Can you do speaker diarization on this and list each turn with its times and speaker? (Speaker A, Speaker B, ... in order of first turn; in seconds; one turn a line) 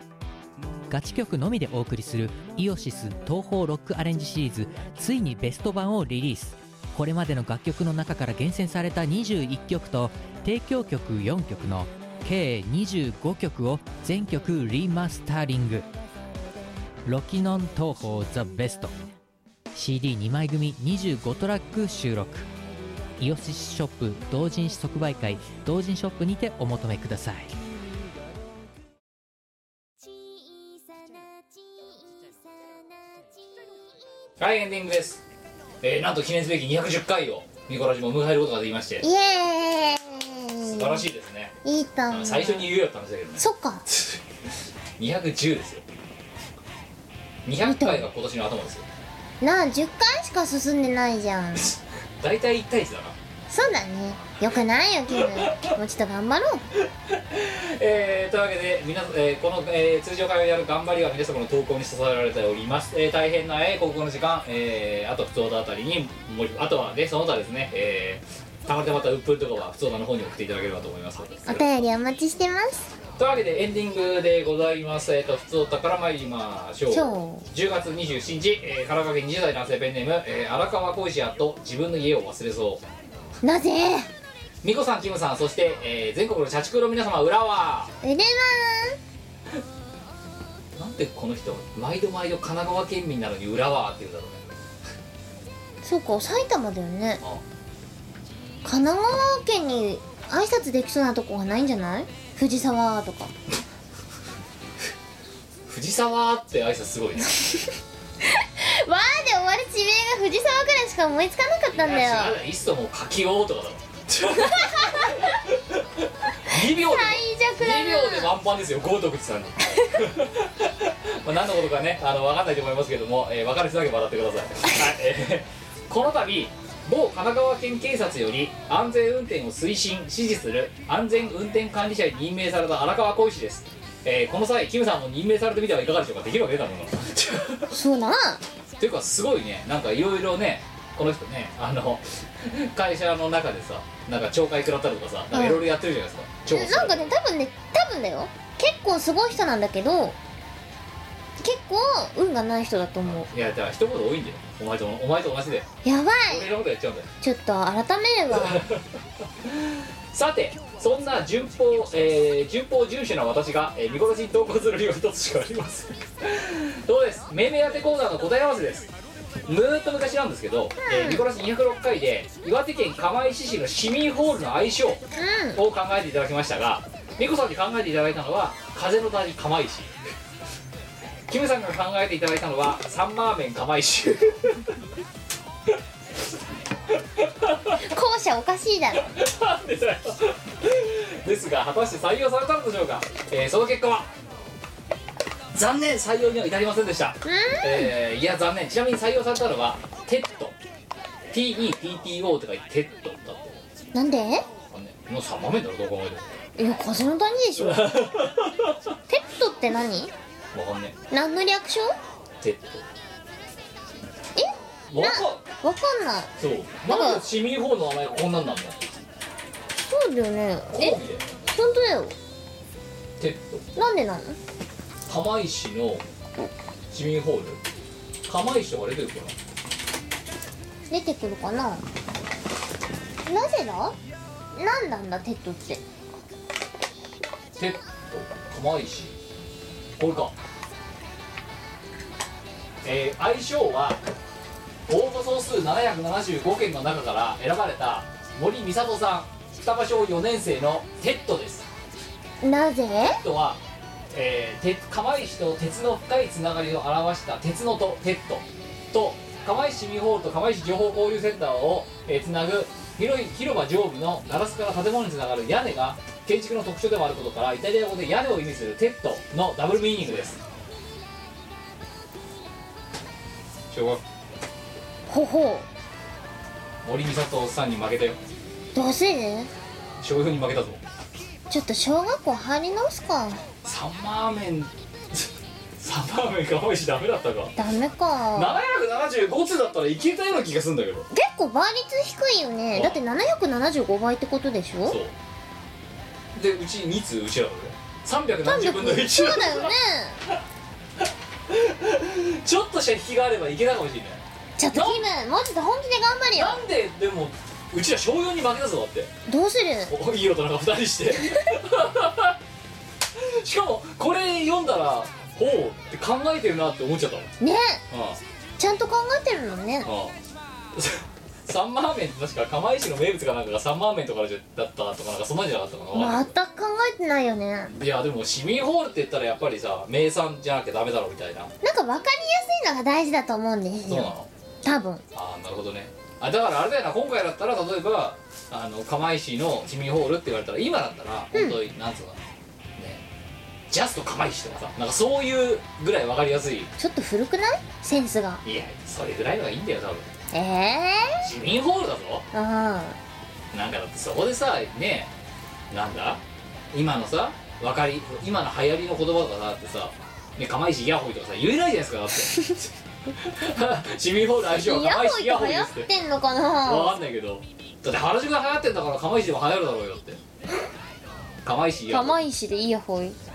Speaker A: 0.9-15.9
Speaker A: 17.1-19.0
Speaker A: 19.7-22.5
Speaker A: 23.2-27.5
Speaker B: 34.4-35.2
Speaker B: 35.8-39.0
Speaker C: 39.0-41.0
Speaker B: 40.6-41.5
Speaker C: 41.6-42.7
Speaker B: 42.1-44.2
Speaker C: 43.4-43.8
Speaker B: 45.0-45.8
Speaker B: 47.4-48.9
Speaker C: 47.6-48.0
Speaker C: 49.4-51.7
Speaker B: 52.2-53.2
Speaker C: 53.5-56.6
Speaker B: 55.1-55.7
Speaker B: 57.1-71.8
Speaker C: 71.5-72.9
Speaker B: 73.2-82.8
Speaker C: 76.9-77.5
Speaker C: 83.4-84.1
Speaker B: 84.6-87.9
Speaker C: 88.0-89.0
Speaker B: 90.7-94.5
Speaker C: 95.8-97.2
Speaker C: 98.6-103.3
Speaker B: 105.7-107.3
Speaker C: 108.3-112.3
Speaker B: 111.7-137.7
Speaker C: 114.3-115.3
Speaker C: 116.5-118.3
Speaker C: 137.7-138.4
Speaker B: 138.8-147.1
Speaker C: 145.3-145.6
Speaker C: 146.5-150.2
Speaker C: 151.4-153.2
Speaker B: 153.0-155.7
Speaker C: 155.8-156.5
Speaker B: 156.3-157.1
Speaker C: 157.2-158.6
Speaker B: 158.3-158.8
Speaker B: 159.4-168.9
Speaker B: 169.4-175.0
Speaker C: 170.8-171.2
Speaker C: 175.1-175.6
Speaker B: 175.5-179.9
Speaker B: 181.3-184.8
Speaker B: 187.2-187.8
Speaker C: 187.7-189.1
Speaker B: 189.0-194.1
Speaker B: 195.5-200.5
Speaker C: 197.2-197.9
Speaker B: 201.3-203.6
Speaker C: 203.9-204.4
Speaker B: 204.7-206.4
Speaker C: 206.6-208.0
Speaker B: 207.6-208.8
Speaker C: 209.1-210.1
Speaker B: 210.5-210.9
Speaker C: 211.1-211.9
Speaker B: 212.4-212.8
Speaker C: 214.3-216.3
Speaker B: 214.9-215.4
Speaker B: 216.4-218.9
Speaker C: 216.9-217.2
Speaker C: 219.8-222.2
Speaker B: 220.7-221.2
Speaker B: 223.2-223.6
Speaker C: 223.8-224.4
Speaker B: 225.1-226.0
Speaker B: 226.9-227.6
Speaker B: 228.2-229.3
Speaker C: 230.9-231.8
Speaker C: 233.2-233.9
Speaker C: 234.5-235.8
Speaker B: 237.6-239.1
Speaker B: 240.0-240.3
Speaker B: 242.8-244.0
Speaker B: 244.9-251.7
Speaker C: 252.4-253.2
Speaker B: 253.0-253.6
Speaker B: 254.1-270.4
Speaker B: 273.7-274.0
Speaker C: 275.1-275.7
Speaker B: 276.8-278.2
Speaker C: 278.7-279.5
Speaker B: 280.0-280.8
Speaker C: 281.5-283.4
Speaker B: 283.6-287.5
Speaker C: 287.6-288.6
Speaker B: 288.3-291.1
Speaker C: 291.1-295.0
Speaker B: 292.7-293.0
Speaker B: 294.9-295.1
Speaker B: 296.3-299.7
Speaker C: 298.4-300.2
Speaker B: 301.5-305.0
Speaker C: 304.6-306.6
Speaker B: 306.3-309.1
Speaker C: 309.3-309.9
Speaker B: 309.9-312.4
Speaker B: 313.1-317.3
Speaker C: 317.4-317.8
Speaker B: 317.9-318.2
Speaker C: 318.6-319.9
Speaker B: 319.8-320.2
Speaker B: 320.7-326.3
Speaker C: 325.9-327.7
Speaker B: 327.7-331.5
Speaker C: 331.6-334.1
Speaker B: 333.9-334.3
Speaker C: 334.6-335.0
Speaker B: 335.1-342.2
Speaker C: 341.3-341.6
Speaker B: 342.8-343.0
Speaker B: 343.7-346.7
Speaker C: 346.8-348.4
Speaker B: 348.4-350.1
Speaker C: 350.3-351.2
Speaker B: 351.2-352.2
Speaker C: 352.3-353.0
Speaker B: 353.5-355.1
Speaker B: 355.7-356.2
Speaker B: 356.7-365.9
Speaker C: 364.6-366.9
Speaker B: 366.6-370.2
Speaker B: 371.4-372.2
Speaker C: 371.9-373.2